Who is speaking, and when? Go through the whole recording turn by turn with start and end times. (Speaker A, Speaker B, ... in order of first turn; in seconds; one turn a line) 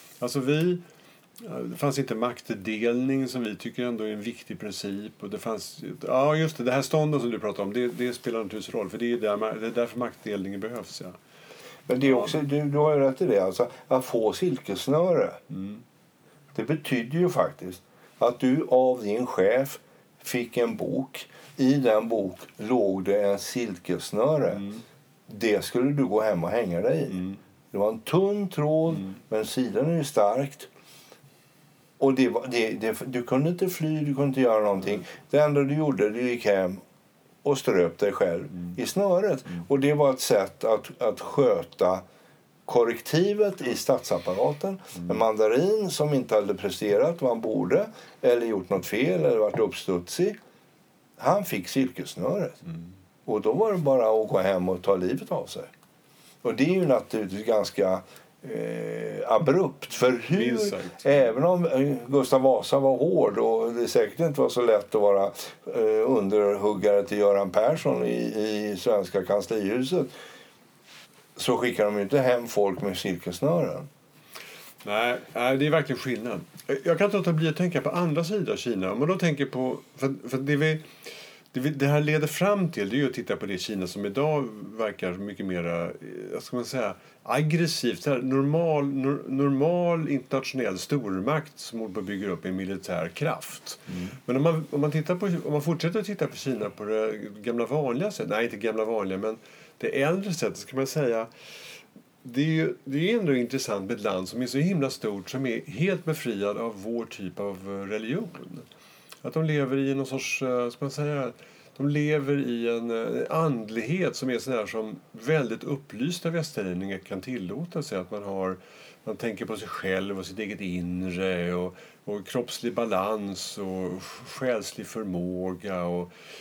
Speaker A: 0.2-0.8
Speaker A: 1.4-11.2
Speaker B: 11.9-15.4
Speaker A: 12.0-12.3
Speaker A: 15.5-15.8
Speaker B: 16.5-24.7
Speaker A: 24.6-24.8
Speaker B: 25.3-30.7
Speaker A: 27.1-27.4
Speaker B: 32.0-36.8
Speaker B: 37.4-42.0
Speaker B: 42.7-50.4
Speaker B: 51.2-52.6
Speaker B: 53.3-55.7
Speaker B: 56.4-70.1
Speaker A: 60.3-61.2
Speaker B: 71.4-73.9
Speaker A: 74.8-80.9
Speaker A: 81.5-101.3
Speaker A: 102.2-108.7
Speaker A: 109.2-126.1